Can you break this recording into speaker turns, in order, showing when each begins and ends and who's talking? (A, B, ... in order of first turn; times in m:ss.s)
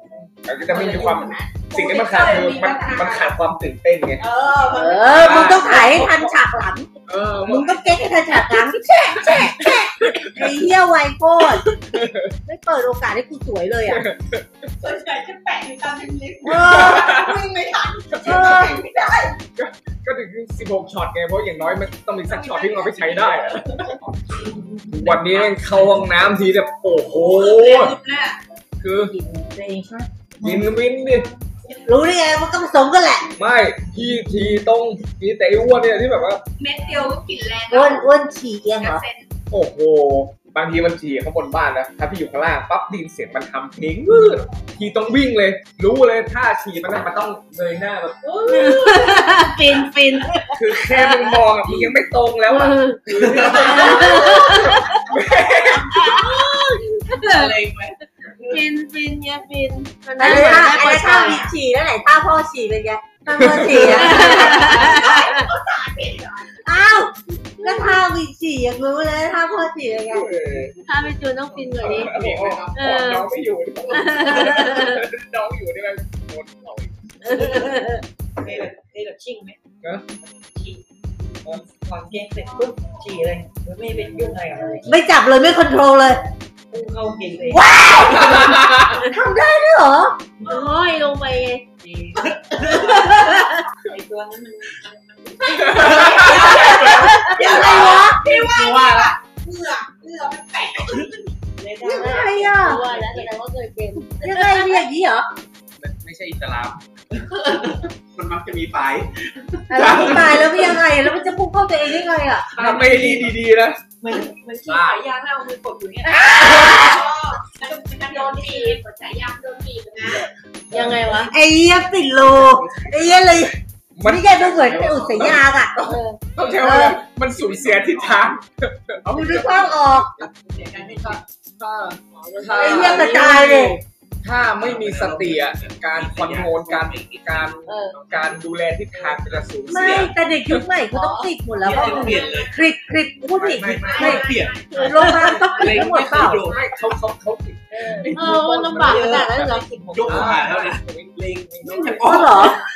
0:00.4-0:04.2 A
0:00.6-0:03.3 B
0:04.2-0:06.3 B
0:04.7-0:06.9 C
0:05.2-0:05.8 A
0:07.1-0:07.8 A
0:07.4-0:11.6 C
0:10.1-0:10.4 A
0:11.9-0:12.3 A
0:12.4-0:14.0 C
0:13.9-0:14.4 A
0:14.8-0:19.4 B
0:16.4-0:17.1 C
0:16.5-0:17.4 A
0:18.2-0:18.8 C
0:19.6-0:23.9 A
0:22.3-0:23.4 B
0:24.9-0:27.9 A
0:27.2-0:28.4 B
0:28.8-0:29.1 A
0:29.0-0:30.1 C
0:30.4-0:31.3 A
0:31.8-0:33.3 C
0:33.4-0:36.4 A
0:36.6-0:38.1 B
0:37.7-0:39.0 C
0:38.8-0:39.3 B
0:39.5-0:49.1 A
0:48.5-0:51.2 D
0:50.5-0:56.3 A
0:52.5-0:53.0 D
0:53.2-0:54.2 E
0:53.6-0:55.0 D
0:54.0-0:54.3 C
0:55.8-0:57.6 D
0:57.3-0:57.9 E
0:58.4-1:01.5 D
1:00.2-1:05.1 C
1:03.3-1:04.3 A
1:03.9-1:05.4 D
1:04.2-1:06.6 B
1:06.6-1:10.4 C
1:07.6-1:08.0 D
1:10.1-1:10.7 A
1:10.9-1:12.1 D
1:11.7-1:12.7 E
1:11.8-1:16.9 A
1:12.7-1:13.2 D
1:13.9-1:15.0 D
1:17.2-1:18.0 D
1:17.3-1:17.8 F
1:18.4-1:19.6 F
1:20.2-1:20.8 F
1:21.4-1:24.9 F
1:24.8-1:26.2 C
1:26.7-1:27.7 F
1:27.5-1:30.2 C
1:30.4-1:30.6 F
1:30.4-1:31.6 D
1:31.8-1:36.4 F
1:35.4-1:41.4 B
1:36.6-1:36.8 E
1:37.3-1:38.3 C
1:37.6-1:39.1 E
1:41.6-1:43.3 F
1:41.9-1:42.8 C
1:42.0-1:44.8 D
1:44.2-1:45.3 C
1:45.8-1:46.8 E
1:48.1-1:49.1 E
1:49.7-1:52.5 C
1:49.7-1:50.5 A
1:52.5-1:53.4 F
1:52.6-1:53.8 A
1:54.0-1:56.4 F
1:54.7-1:55.0 E
1:56.0-1:57.0 C
1:56.2-2:00.3 B
2:00.7-2:01.0 A
2:00.7-2:01.3 D
2:01.3-2:05.7 C
2:02.6-2:03.4 A
2:04.0-2:09.6 A
2:05.8-2:06.2 D
2:06.6-2:07.0 C
2:07.6-2:08.1 E
2:09.0-2:10.1 C
2:10.3-2:11.2 F
2:11.6-2:13.5 A
2:12.2-2:13.8 D
2:12.6-2:13.8 C
2:14.2-2:20.6 A
2:14.6-2:18.2 E
2:17.6-2:18.0 D
2:19.3-2:20.1 E
2:19.7-2:26.4 C
2:20.9-2:21.3 D
2:21.6-2:22.5 E
2:21.7-2:22.5 F
2:23.4-2:24.2 A
2:23.4-2:26.6 E
2:23.9-2:24.9 B
2:24.7-2:25.0 D
2:24.9-2:25.5 F
2:26.4-2:29.2 A
2:27.7-2:30.7 F
2:28.1-2:29.6 D
2:29.9-2:30.8 E
2:30.0-2:32.2 A
2:31.6-2:32.6 E
2:31.8-2:32.6 C